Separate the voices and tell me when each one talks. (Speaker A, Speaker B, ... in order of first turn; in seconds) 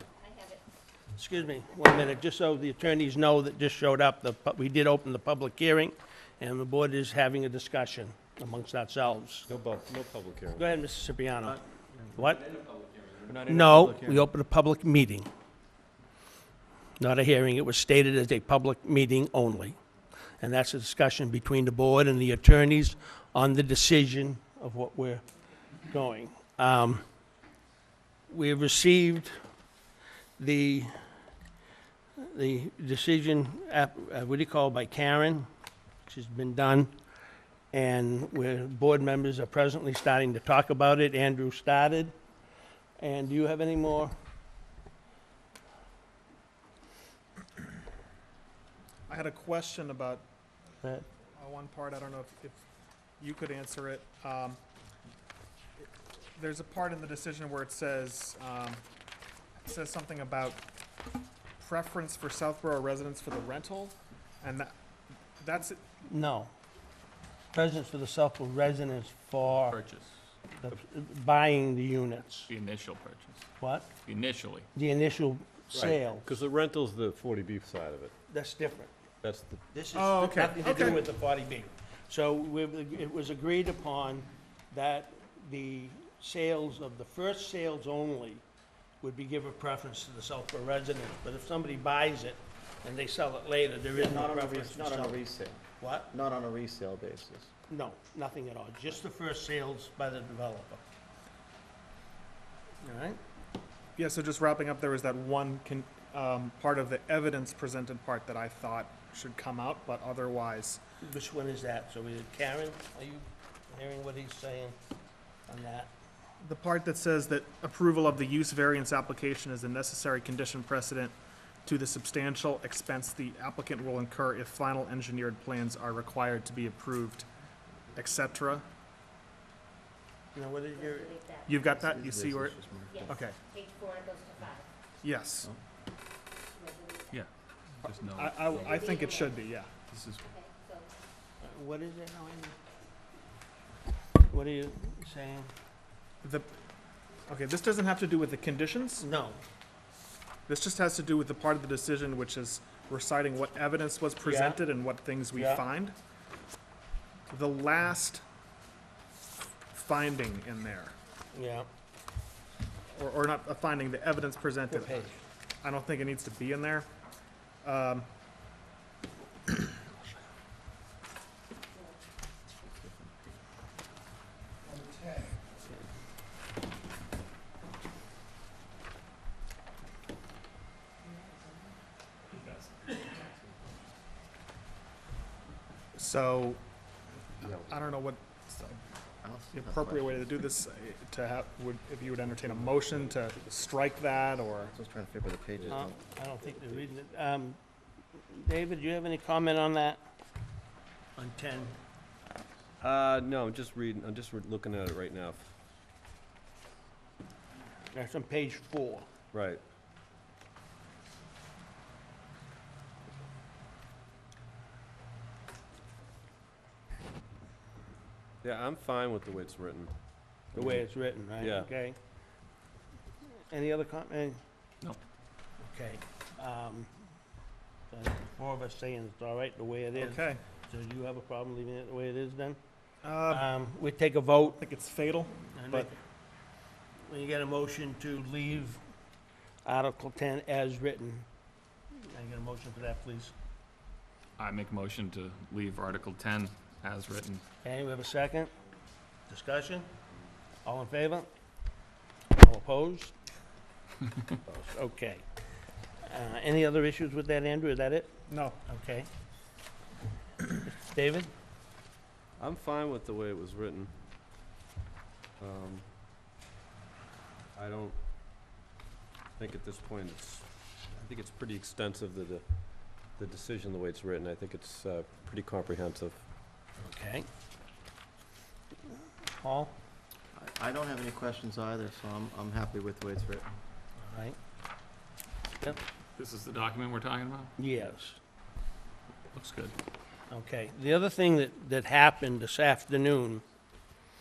Speaker A: 0.2-0.6, 130.8-131.5, 132.9-134.7, 136.5-137.2, 138.5-139.4, 140.2-140.9
Speaker B: 1.1-9.5, 10.5-11.6, 12.1-12.4, 13.4-15.3, 17.0-19.8, 20.4-25.2, 25.9-27.0, 28.3-29.3, 30.4-30.9, 32.2-35.5, 36.0-36.9, 37.7-42.1, 43.0-44.1, 50.8-51.0, 66.1-66.5, 67.5-69.8, 70.6-72.5, 73.6-73.9, 74.8-76.3, 78.3-78.9, 79.7-88.4, 89.0-95.2, 95.8-96.1, 97.7-100.8, 102.8-103.2, 111.0-114.8, 115.5-115.9, 130.3-131.2, 141.4-142.6, 144.2-145.5, 149.0-149.4, 154.2-154.6, 155.3-155.6, 161.3-161.7, 164.7-165.2, 195.7-197.6, 198.3-200.0, 201.2-201.8, 207.9-209.1, 220.5-222.0, 223.5-224.4, 225.6-226.9, 227.9-232.6, 233.3-234.6, 235.5-236.0, 237.1-238.8, 239.6-241.2, 241.9-243.3, 247.6-248.5, 249.3-249.9, 250.6-251.3, 252.4-253.1, 254.5-255.2, 256.0-258.1, 258.6-259.1, 260.6-261.3, 276.8-277.3, 279.4-279.8, 284.0-284.4, 287.6-288.2, 290.3-293.4
Speaker C: 9.5-10.7, 13.3-14.1, 75.7-78.1, 79.2-79.6, 195.6-195.8, 202.8-205.5, 209.3-209.6, 218.4-220.8, 221.4-221.7, 262.4-263.9, 265.4-265.9, 267.6-268.0, 269.4-276.2
Speaker D: 11.4-12.1, 13.3-14.2, 94.0-97.5, 131.7-133.2, 189.2-190.2, 194.7-196.0, 280.3-283.5
Speaker E: 49.1-50.2, 51.4-52.6, 53.2-54.6, 55.8-58.8, 59.6-60.6, 61.6-64.7, 65.4-65.8, 79.9-81.0, 104.0-110.8, 116.4-127.3, 127.9-128.7, 131.5-133.4, 135.0-135.5, 138.0-139.7, 146.2-146.5, 147.3-149.0, 150.5-156.0, 157.3-158.2, 159.7-160.9, 162.9-165.1, 165.6-166.9, 167.6-168.1, 185.9-186.6, 187.4-188.8, 189.5-194.7, 230.0-230.4, 233.0-233.5, 234.5-235.9, 258.3-258.6
Speaker F: 69.7-70.1, 72.5-73.4, 74.1-74.7, 137.8-138.9, 139.9-140.2, 244.4-247.4, 286.2-287.5, 289.3-289.8